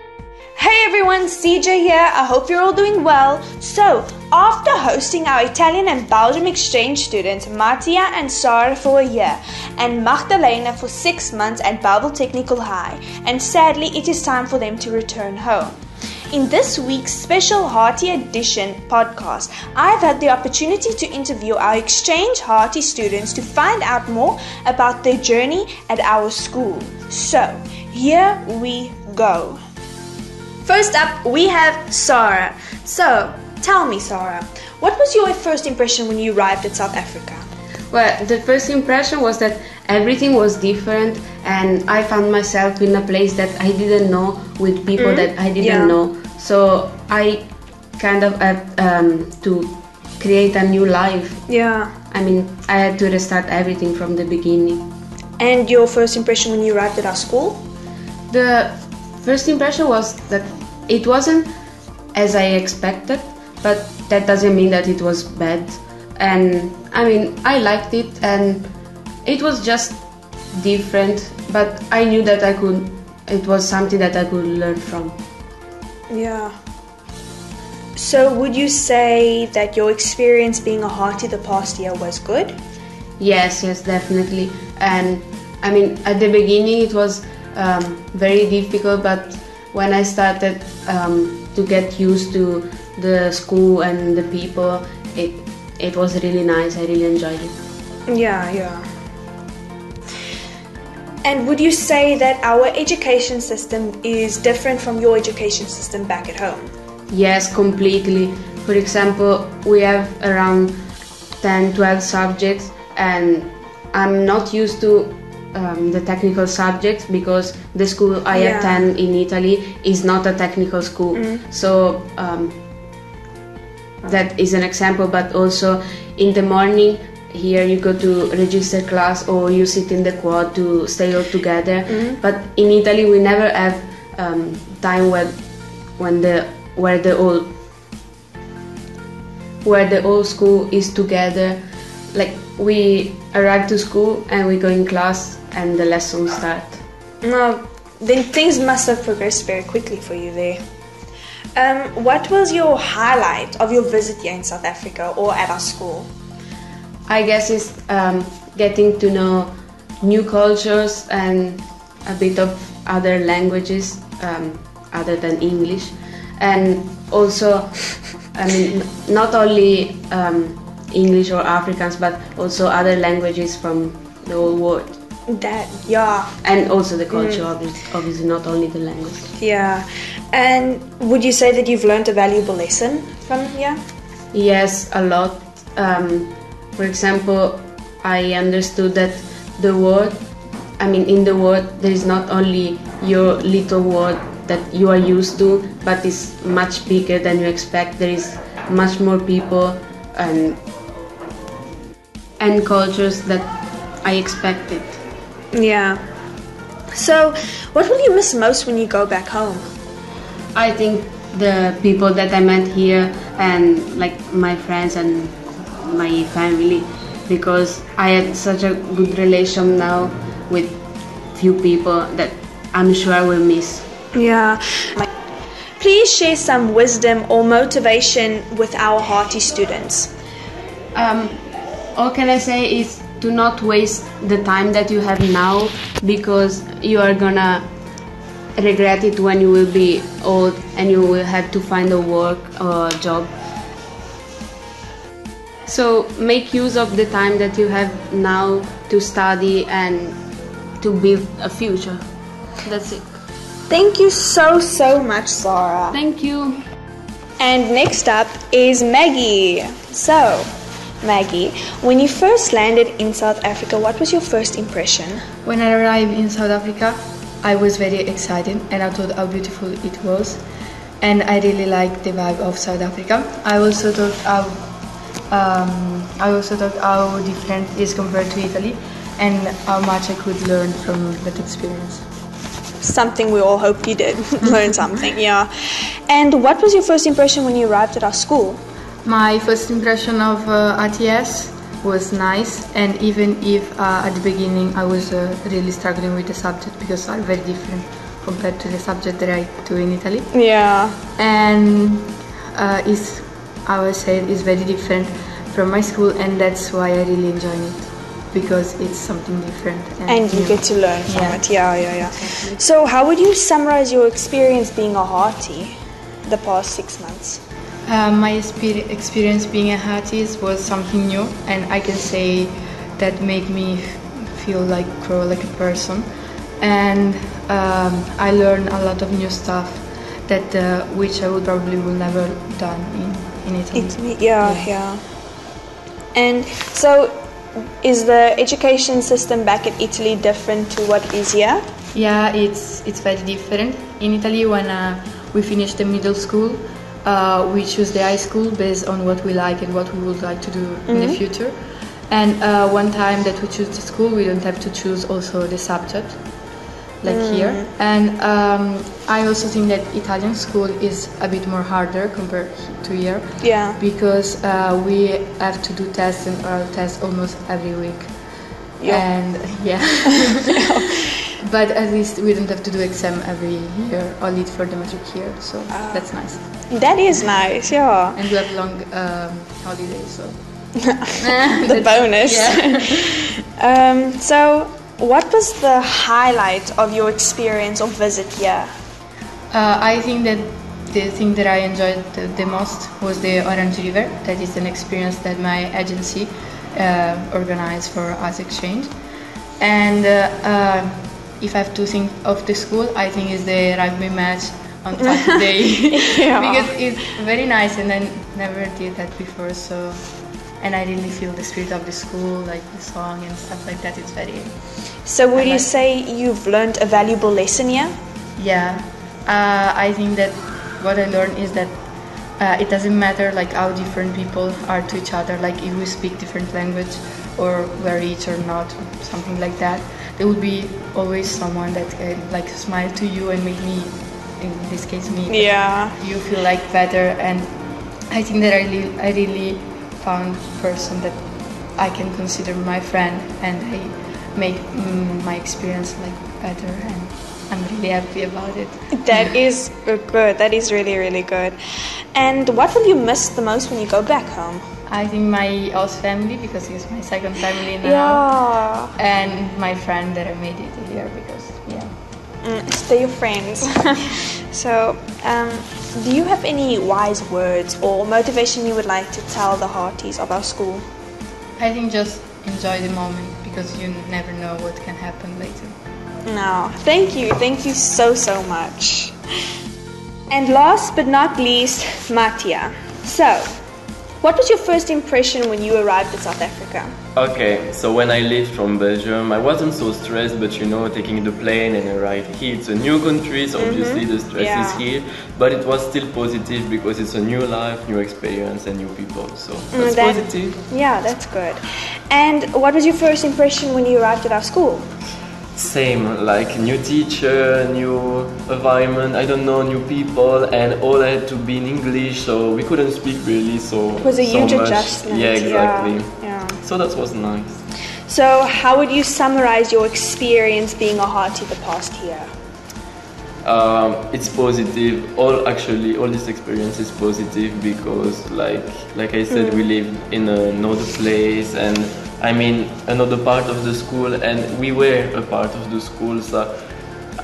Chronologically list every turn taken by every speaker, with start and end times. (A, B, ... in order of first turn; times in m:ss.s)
0:00.6-0:15.8 A
0:16.3-0:29.6 A
0:30.6-0:37.4 A
0:37.9-0:51.4 B
0:45.0-0:46.0 A
0:51.5-0:51.9 A
0:52.1-0:54.9 B
0:55.4-0:57.6 A
0:58.3-1:01.5 B
1:02.1-1:08.7 B
1:09.2-1:10.0 B
1:10.5-1:15.2 B
1:16.1-1:16.6 A
1:18.0-1:22.6 A
1:23.2-1:37.6 B
1:38.1-1:38.9 A
1:41.2-1:46.7 A
1:47.1-1:50.8 B
1:51.4-2:02.6 B
1:58.3-1:58.9 A
2:01.1-2:01.4 A
2:04.0-2:15.4 B
2:11.9-2:12.2 A
2:16.0-2:17.5 B
2:19.6-2:21.6 B
2:22.1-2:26.8 B
2:27.2-2:30.6 A
2:31.6-2:36.1 A
2:37.1-2:55.0 B
2:55.3-2:56.4 A
2:56.4-2:59.3 B
2:57.1-2:57.4 A
2:59.4-3:03.8 A
3:04.3-3:10.2 B
3:10.8-3:20.6 B
3:22.4-3:25.0 B
3:25.5-3:26.0 A
3:26.9-3:29.7 A
3:30.5-3:40.8 B
3:41.3-3:43.9 B
3:44.1-3:45.1 A
3:45.8-3:50.1 A
3:50.9-3:51.4 B
3:52.0-3:57.7 B
3:58.6-4:03.3 B
4:05.7-4:10.2 B
4:10.8-4:12.0 B
4:12.6-4:13.1 B
4:13.7-4:16.0 A
4:15.9-4:16.6 B
4:17.4-4:25.2 A
4:25.4-4:30.4 C
4:31.0-4:34.7 C
4:35.3-4:42.1 C
4:42.8-4:48.6 A
4:49.0-5:00.3 C
5:00.3-5:01.0 A
5:01.2-5:12.6 C
5:10.1-5:17.4 A
5:17.8-5:34.7 C
5:33.7-5:35.0 A
5:36.1-5:41.6 A
5:41.9-5:56.5 C
5:50.9-5:51.2 A
5:57.0-6:10.7 C
5:57.1-5:57.7 A
6:03.4-6:03.8 A
6:08.8-6:09.1 A
6:10.2-6:11.2 A
6:11.4-6:16.4 C
6:15.7-6:18.2 A
6:18.1-6:20.4 C
6:21.2-6:22.9 C
6:21.6-6:28.7 A
6:29.5-6:38.9 C
6:39.6-6:54.6 C
6:45.2-6:46.8 A
6:55.0-6:58.0 A
6:55.4-6:55.7 C
6:58.4-7:17.5 C
7:15.3-7:16.0 A
7:18.1-7:29.2 C
7:28.9-7:31.6 A
7:32.1-7:34.6 A
7:34.9-7:38.4 C
7:37.8-7:38.9 A
7:39.0-7:41.9 C
7:42.4-7:50.8 A
7:51.6-7:55.8 C
7:56.3-7:59.2 A
8:00.3-8:03.6 A
8:04.2-8:07.0 A
8:07.2-8:20.6 D
8:13.6-8:14.9 A
8:19.7-8:24.9 A
8:25.6-8:37.6 D
8:34.0-8:36.6 A
8:38.1-8:42.3 A
8:43.4-8:56.5 D
8:49.3-8:49.7 A